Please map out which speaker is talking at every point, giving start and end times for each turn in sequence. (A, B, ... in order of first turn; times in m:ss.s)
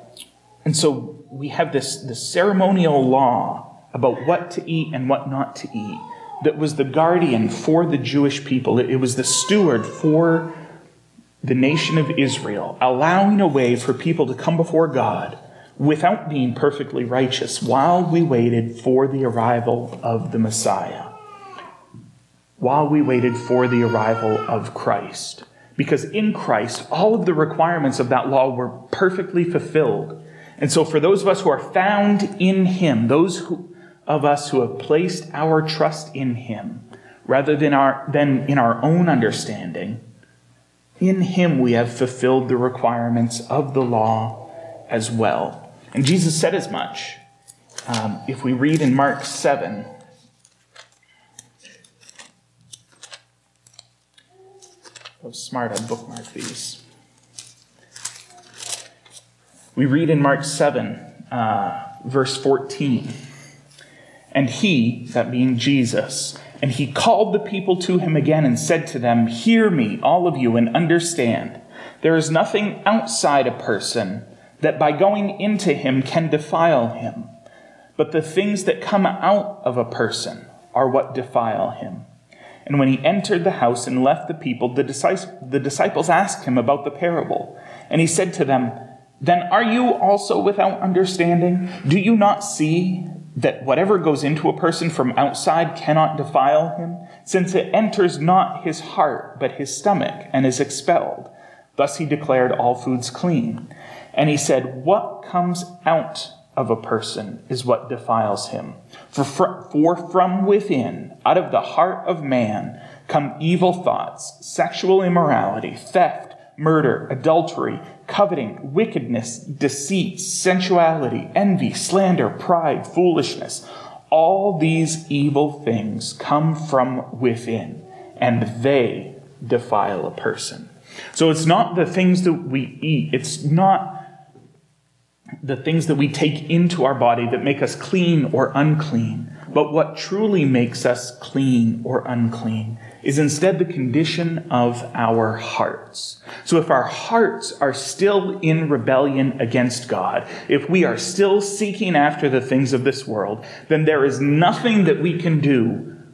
0:00.6-0:10.6 A
0:11.4-0:21.1 A
0:22.6-0:40.0 A
0:41.0-0:47.2 A
0:47.9-0:49.9 A
0:55.2-0:56.8 A
0:59.7-1:03.1 A
1:04.3-1:17.3 A
1:18.0-1:22.1 A
1:22.6-2:14.0 A
2:15.4-2:36.0 A